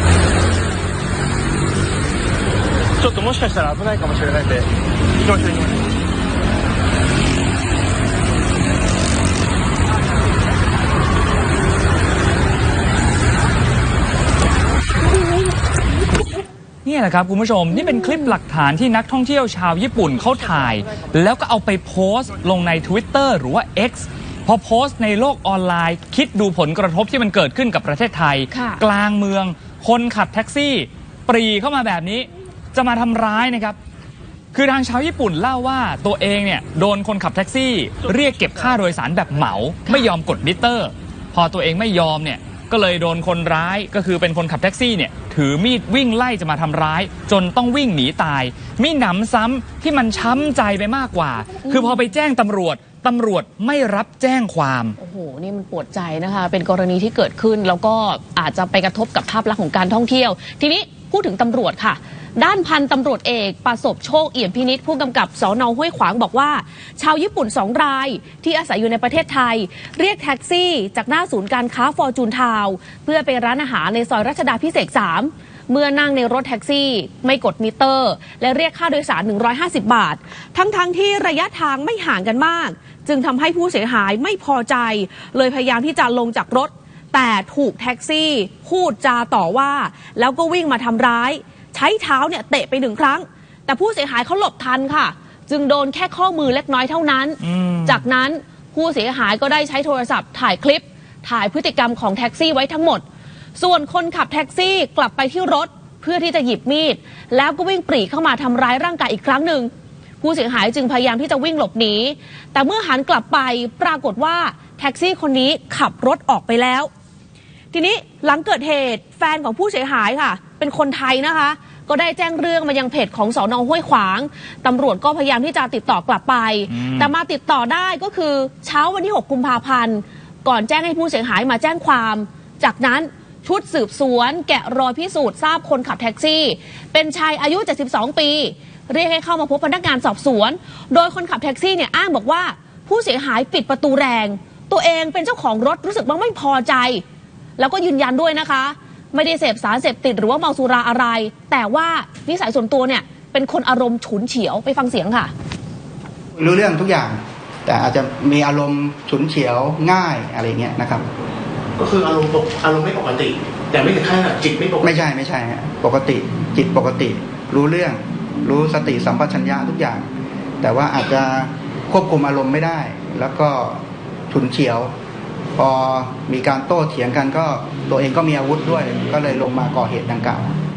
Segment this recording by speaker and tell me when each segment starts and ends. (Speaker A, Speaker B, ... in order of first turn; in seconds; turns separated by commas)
Speaker A: 3.0-5.7, Speaker B: 16.9-33.8, Speaker C: 28.5-28.8, Speaker B: 34.5-55.0, Speaker C: 51.7-52.1, Speaker C: 55.0-103.0, Speaker B: 97.4-98.0, Speaker C: 103.6-109.7, Speaker C: 110.2-116.9, Speaker C: 117.7-147.0, Speaker B: 126.7-127.1, Speaker C: 147.6-155.3, Speaker D: 156.3-161.1, Speaker E: 161.8-165.0, Speaker D: 164.8-170.1, Speaker D: 170.6-174.9, Speaker D: 175.6-180.5